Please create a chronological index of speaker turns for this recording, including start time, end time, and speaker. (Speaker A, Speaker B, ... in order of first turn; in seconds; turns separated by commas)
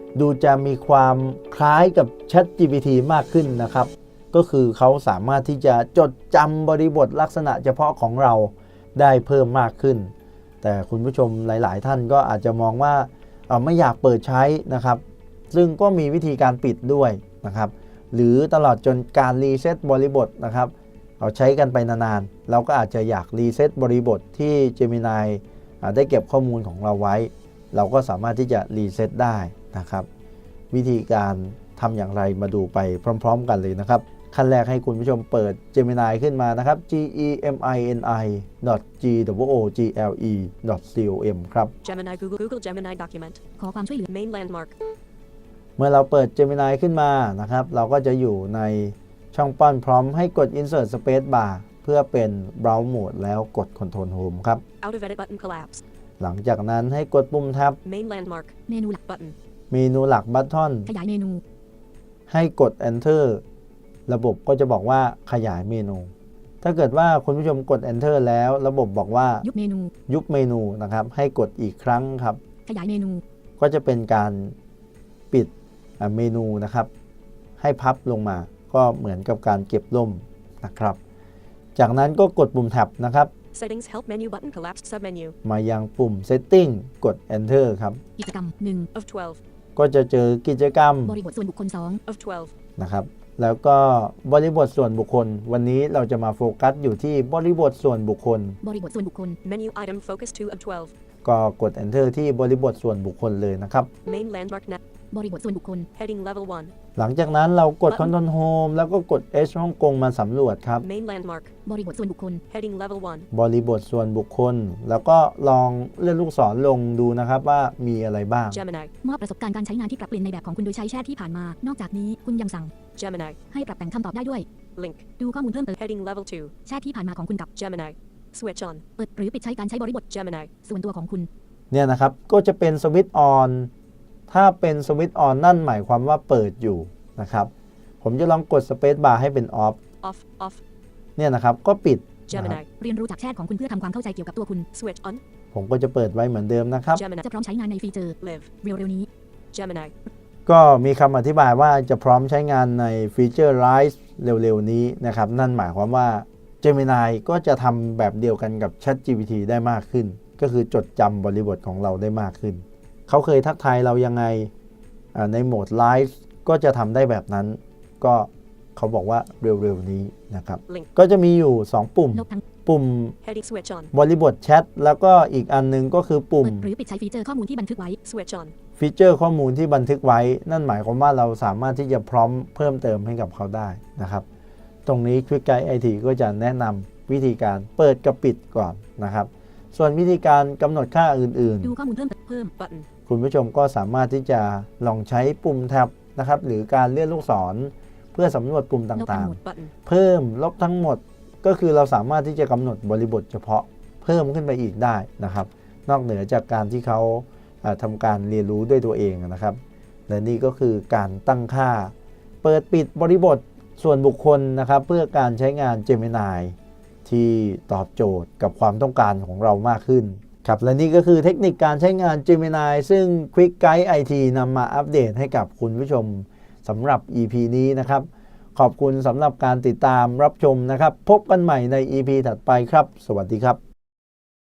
Speaker A: 0.1-30.1, Speaker A: 30.7-41.7, Speaker B: 41.8-43.4, Speaker C: 43.6-44.1, Speaker B: 44.1-44.7, Speaker A: 45.8-54.6, Speaker B: 54.8-55.8, Speaker A: 56.2-57.8, Speaker B: 57.9-58.5, Speaker C: 58.7-59.0, Speaker B: 59.1-59.4, Speaker A: 59.7-60.9, Speaker C: 60.9-61.4, Speaker A: 62.3-63.4, Speaker A: 64.1-66.1, Speaker A: 66.6-69.5, Speaker C: 69.4-69.9, Speaker A: 70.1-72.4, Speaker C: 72.7-73.2, Speaker A: 73.6-74.6, Speaker A: 75.3-76.9, Speaker A: 77.6-81.0, Speaker A: 81.8-83.3, Speaker B: 83.5-85.3, Speaker A: 85.4-88.0, Speaker C: 88.2-88.9, Speaker B: 88.9-89.4, Speaker A: 89.8-91.2, Speaker C: 91.0-92.0, Speaker B: 92.1-92.5, Speaker A: 92.8-98.6, Speaker C: 98.6-99.4, Speaker B: 99.4-100.9, Speaker A: 101.2-103.9, Speaker B: 104.0-104.8, Speaker C: 105.1-105.9, Speaker B: 106.0-106.7, Speaker A: 107.0-110.8, Speaker B: 110.8-111.5, Speaker C: 111.7-112.4, Speaker B: 112.5-113.3, Speaker A: 113.3-118.6, Speaker B: 118.5-118.9, Speaker C: 119.0-122.7, Speaker B: 123.0-123.4, Speaker C: 123.5-124.5, Speaker B: 124.8-125.0, Speaker C: 125.2-125.8, Speaker B: 125.8-126.5, Speaker C: 126.7-127.5, Speaker B: 127.5-128.8, Speaker C: 129.0-130.1, Speaker B: 130.1-130.5, Speaker C: 130.6-131.3, Speaker A: 131.7-133.7, Speaker A: 134.3-137.5, Speaker A: 138.0-139.8, Speaker B: 140.0-140.6, Speaker A: 141.2-142.6, Speaker B: 142.3-142.7, Speaker C: 142.8-144.7, Speaker B: 144.7-145.2, Speaker A: 145.5-147.0, Speaker B: 146.9-147.3, Speaker C: 147.2-149.1, Speaker B: 148.2-148.5, Speaker B: 149.5-149.9, Speaker A: 150.5-164.5, Speaker A: 165.1-173.2, Speaker C: 172.1-172.4, Speaker B: 173.2-173.9, Speaker A: 173.9-176.7, Speaker C: 176.4-178.0, Speaker B: 178.0-178.5, Speaker A: 178.8-184.2, Speaker A: 184.9-191.8, Speaker C: 191.6-192.5, Speaker B: 192.6-192.9, Speaker A: 193.1-233.6, Speaker C: 199.0-199.4, Speaker B: 199.4-199.7